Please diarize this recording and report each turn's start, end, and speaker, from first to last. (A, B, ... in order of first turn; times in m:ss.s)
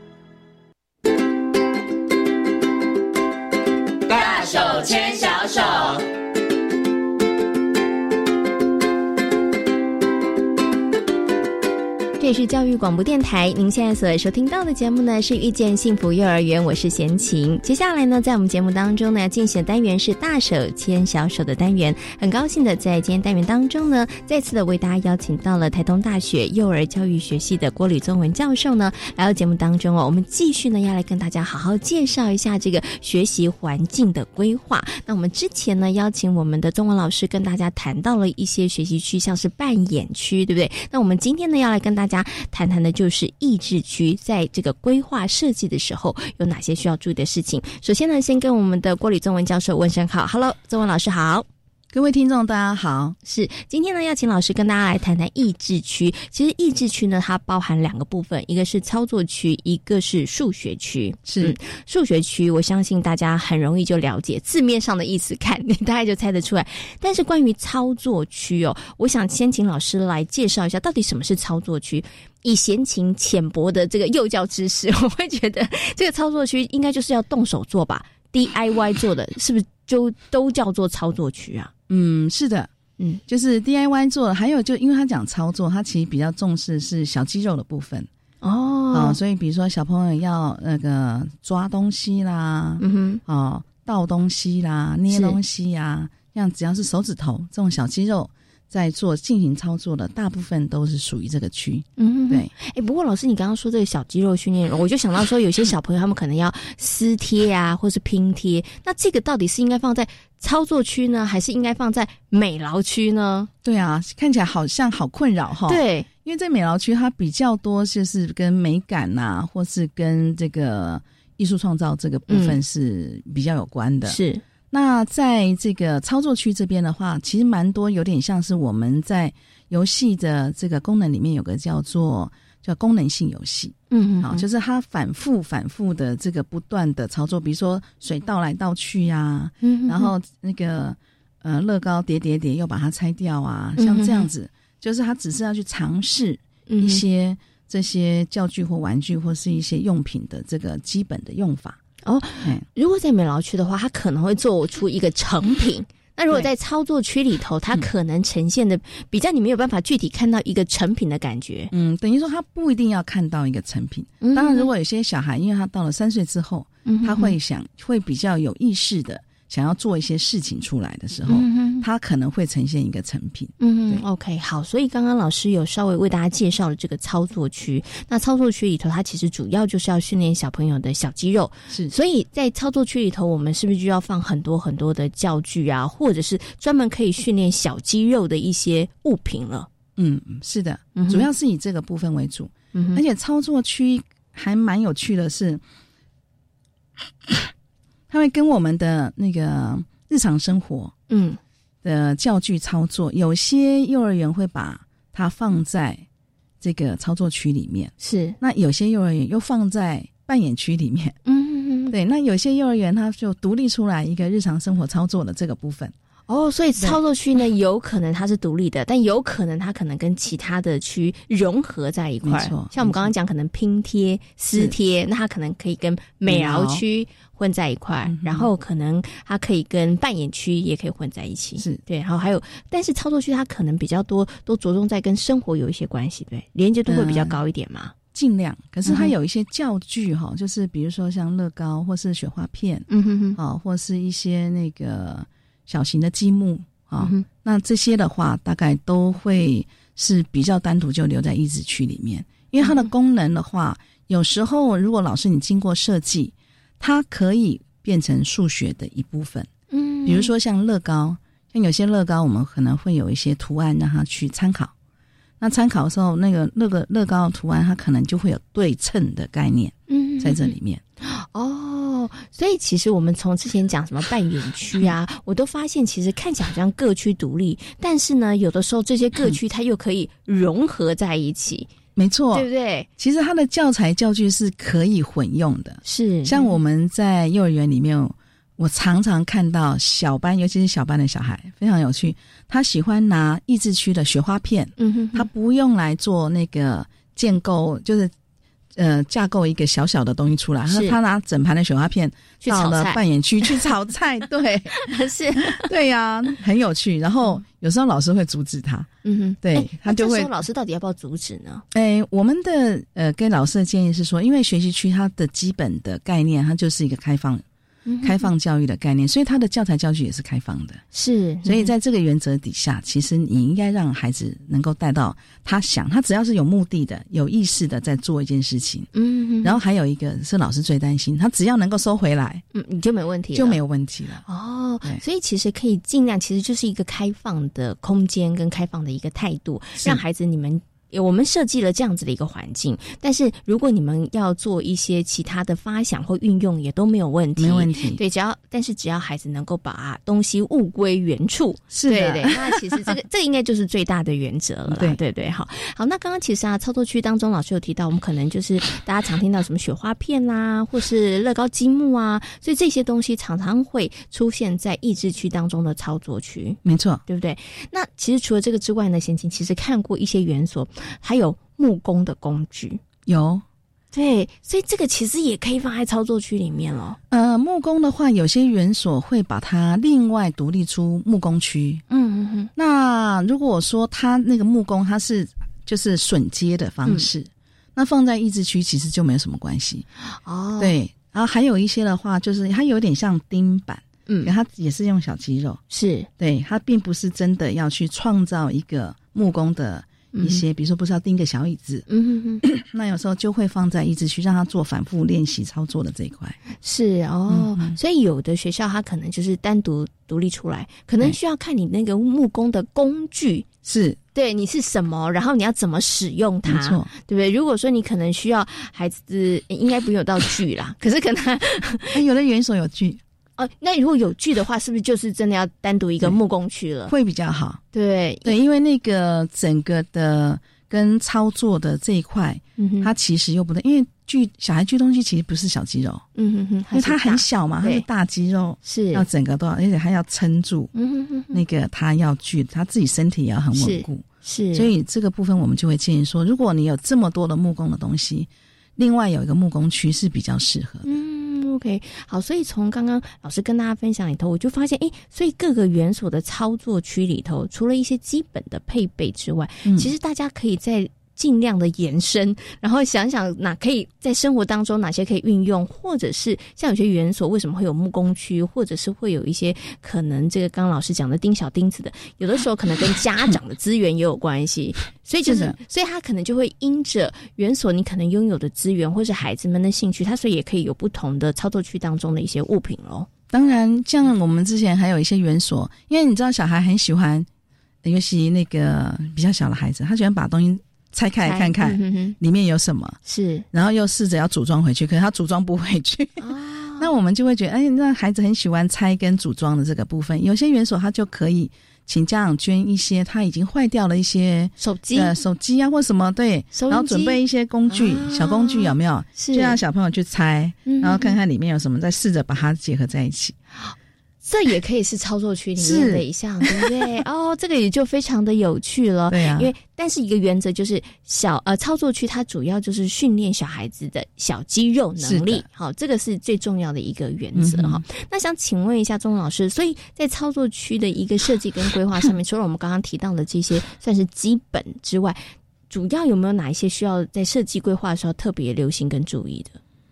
0:12.2-0:51.5 A
0:51.9-0:53.2 B
0:53.2-1:21.7 A
1:01.3-1:01.6 B
1:21.9-1:22.7 B
1:23.3-1:28.1 B
1:28.4-1:29.2 A
1:28.9-1:42.5 B
1:32.8-1:33.2 A
1:35.1-1:35.4 A
1:42.0-1:53.5 A
1:53.6-2:04.2 B
1:55.7-1:56.1 A
2:02.3-2:02.6 A
2:04.1-2:04.4 A
2:04.7-2:31.8 B
2:13.9-2:14.4 A
2:19.6-2:20.1 A
2:23.8-2:24.3 A
2:26.7-2:27.0 A
2:32.0-2:41.7 A
2:41.7-2:54.0 B
2:44.2-2:44.7 A
2:46.9-2:47.4 A
2:51.3-2:51.8 A
2:53.6-3:09.7 A
3:01.7-3:01.9 B
3:10.0-3:15.6 B
3:11.0-3:11.3 A
3:12.7-3:13.0 A
3:18.1-3:20.9 B
3:21.1-3:21.4 A
3:21.8-3:26.0 B
3:26.6-3:31.2 B
3:28.0-3:28.4 A
3:31.3-3:32.0 A
3:31.9-3:35.9 B
3:36.3-3:57.9 A
3:42.2-3:43.1 B
3:46.3-3:46.8 B
3:48.0-3:48.5 B
3:51.6-3:51.8 B
3:56.9-3:57.4 B
3:58.1-4:19.5 B
3:58.8-3:59.1 A
4:02.9-4:03.4 A
4:07.0-4:07.2 A
4:12.6-4:12.9 A
4:19.7-4:20.3 A
4:20.0-4:24.7 B
4:25.4-4:30.8 B
4:29.9-4:41.7 A
4:42.0-4:58.1 B
4:42.3-4:42.9 A
4:45.8-4:46.5 A
4:54.8-4:55.3 A
4:58.8-5:08.9 B
5:00.7-5:01.0 A
5:02.4-5:03.7 A
5:04.8-5:05.7 A
5:09.0-5:11.6 A
5:09.4-5:10.3 B
5:11.7-5:17.4 B
5:17.9-5:18.3 A
5:18.0-5:20.8 B
5:20.9-5:21.7 A
5:21.4-5:28.9 B
5:28.9-5:29.6 A
5:29.4-5:32.4 B
5:32.5-5:33.6 A
5:33.3-5:34.2 B
5:34.3-6:12.8 A
5:47.4-5:48.0 B
5:51.7-5:52.9 B
5:54.7-5:55.0 B
6:06.6-6:07.0 B
6:13.1-6:13.4 B
6:13.9-6:17.0 A
6:17.1-6:21.8 B
6:21.9-6:22.5 A
6:22.6-6:29.9 B
6:30.2-6:30.8 A
6:30.6-6:35.6 B
6:34.1-6:34.3 A
6:35.7-6:36.1 A
6:36.2-6:41.9 B
6:40.2-6:40.4 A
6:41.9-6:42.4 A
6:42.4-6:46.4 B
6:46.6-6:53.5 A
6:47.3-6:47.8 B
6:53.6-6:54.0 B
6:54.2-7:02.0 A
6:56.4-6:56.9 B
7:01.9-7:03.0 B
7:03.4-7:06.9 A
7:06.9-7:07.6 B
7:07.7-7:08.3 A
7:08.2-7:16.0 B
7:12.6-7:12.9 A
7:16.2-7:17.8 A
7:16.7-7:20.7 B
7:18.6-7:19.1 A
7:20.8-7:21.4 A
7:21.3-7:30.9 B
7:23.6-7:24.7 A
7:30.8-8:03.1 A
7:39.6-7:39.9 B
7:55.2-7:55.6 B
8:03.3-8:07.3 B
8:07.8-8:13.0 B
8:11.2-8:12.2 A
8:13.1-8:13.5 A
8:13.5-8:16.2 B
8:16.2-8:16.9 A
8:16.8-8:33.4 B
8:24.6-8:25.2 A
8:26.5-8:29.6 A
8:30.7-8:31.2 A
8:34.2-8:59.6 A
8:35.6-8:36.9 B
8:39.1-8:39.5 B
8:45.0-8:45.4 B
8:47.3-8:47.8 B